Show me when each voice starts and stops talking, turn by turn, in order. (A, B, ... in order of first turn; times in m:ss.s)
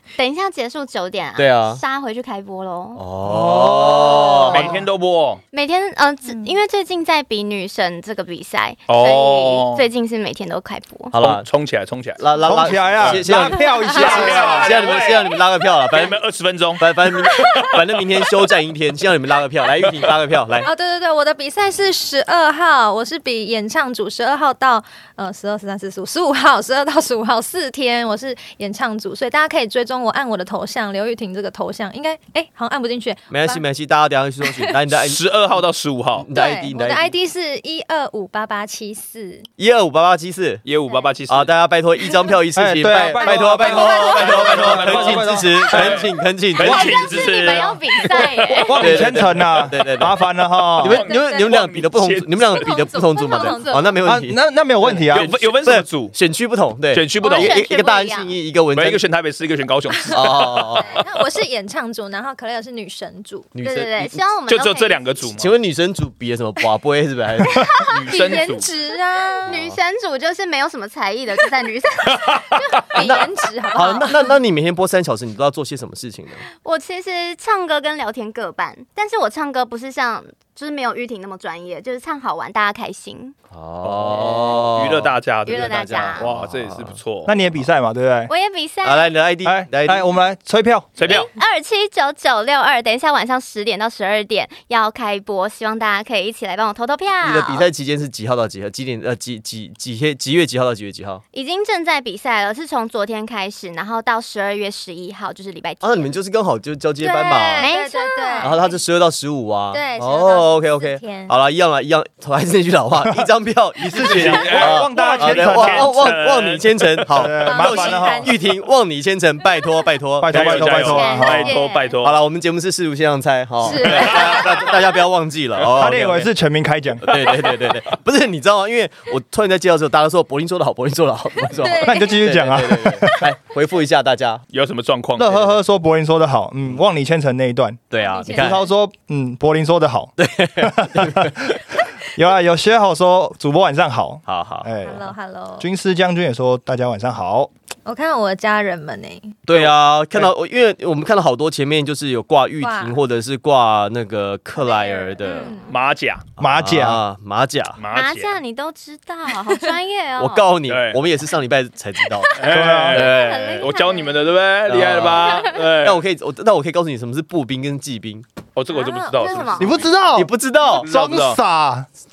0:00.2-0:03.0 A
0:01.4-0:01.8 B
0:03.0-0:04.8 B
0:03.2-0:04.8 C
0:03.3-0:05.4 D
0:05.5-0:11.1 A
0:06.3-0:06.6 E
0:08.9-0:09.8 D
0:11.1-0:11.4 B
0:11.2-0:18.3 D
0:12.2-0:16.2 B
0:12.4-0:14.8 C
0:13.5-0:15.0 E
0:16.8-0:20.7 B
0:17.2-0:17.6 E
0:19.8-0:20.1 D
0:20.6-0:33.6 E
0:33.3-0:35.2 B
0:34.5-0:34.7 E
0:34.9-0:36.3 D
0:36.2-0:37.1 B
0:36.3-0:39.4 E
0:39.6-0:40.6 B
0:40.6-0:41.5 D
0:41.3-0:47.7 B
0:42.5-0:46.1 C
0:42.9-0:44.3 E
0:44.0-0:50.0 D
0:46.6-0:48.8 A
0:48.7-0:51.0 C
0:48.8-0:59.0 B
0:50.8-0:52.8 D
0:51.1-0:51.5 E
0:52.5-0:54.0 E
0:54.0-0:55.3 C
0:55.1-0:56.2 D
0:56.9-0:57.6 D
0:57.2-0:58.4 A
0:58.7-1:01.0 D
1:00.0-1:03.5 E
1:00.1-1:01.0 B
1:03.5-1:04.2 B
1:03.6-1:05.2 A
1:04.5-1:05.5 D
1:05.3-1:07.7 B
1:07.5-1:09.5 E
1:07.9-1:08.7 D
1:09.4-1:12.4 A
1:09.5-1:09.8 B
1:12.1-1:12.6 D
1:12.5-1:14.3 E
1:13.0-1:16.4 B
1:16.5-1:23.3 A
1:23.5-1:27.0 B
1:23.8-1:27.4 D
1:25.4-1:26.3 A
1:27.2-1:28.3 C
1:28.3-1:29.1 A
1:28.8-1:30.0 B
1:29.4-1:30.9 C
1:31.0-1:31.3 D
1:31.0-1:37.6 A
1:37.2-1:41.2 B
1:41.3-1:46.1 A
1:45.8-1:47.7 B
1:47.0-1:48.6 E
1:47.6-1:48.8 A
1:48.4-2:00.9 B
1:49.7-1:51.3 E
1:53.0-1:53.3 C
1:53.8-1:56.0 C
1:53.9-1:58.2 D
1:57.1-1:58.3 C
1:57.4-1:58.3 E
2:00.2-2:01.6 C
2:00.3-2:02.2 D
2:00.8-2:01.7 A
2:01.4-2:01.9 E
2:02.0-2:06.3 B
2:03.6-2:04.4 E
2:03.8-2:04.9 D
2:05.7-2:07.1 C
2:07.0-2:14.4 B
2:07.0-2:07.8 D
2:11.5-2:12.2 E
2:11.8-2:13.3 C
2:14.5-2:15.6 D
2:15.2-2:17.8 C
2:17.9-2:18.6 B
2:18.0-2:18.7 E
2:18.3-2:27.5 C
2:20.2-2:21.8 B
2:24.2-2:24.7 B
2:24.8-2:25.7 E
2:27.8-2:29.3 E
2:29.5-2:35.5 B
2:29.5-2:30.3 D
2:32.6-2:33.0 E
2:34.6-2:35.7 A
2:34.7-2:35.7 E
2:35.7-2:36.2 D
2:36.4-2:37.0 C
2:36.4-2:37.8 B
2:37.8-2:38.4 D
2:37.9-2:40.5 A
2:40.2-2:43.7 B
2:40.6-2:41.0 D
2:42.3-2:46.0 D
2:42.5-2:43.1 C
2:43.0-2:44.2 A
2:44.7-2:48.2 B
2:45.2-2:45.6 A
2:48.6-2:49.9 D
2:48.7-2:49.4 E
2:49.1-2:49.7 A
2:49.6-2:50.3 C
2:50.1-2:50.9 B
2:50.7-2:51.4 D
2:50.8-2:51.9 C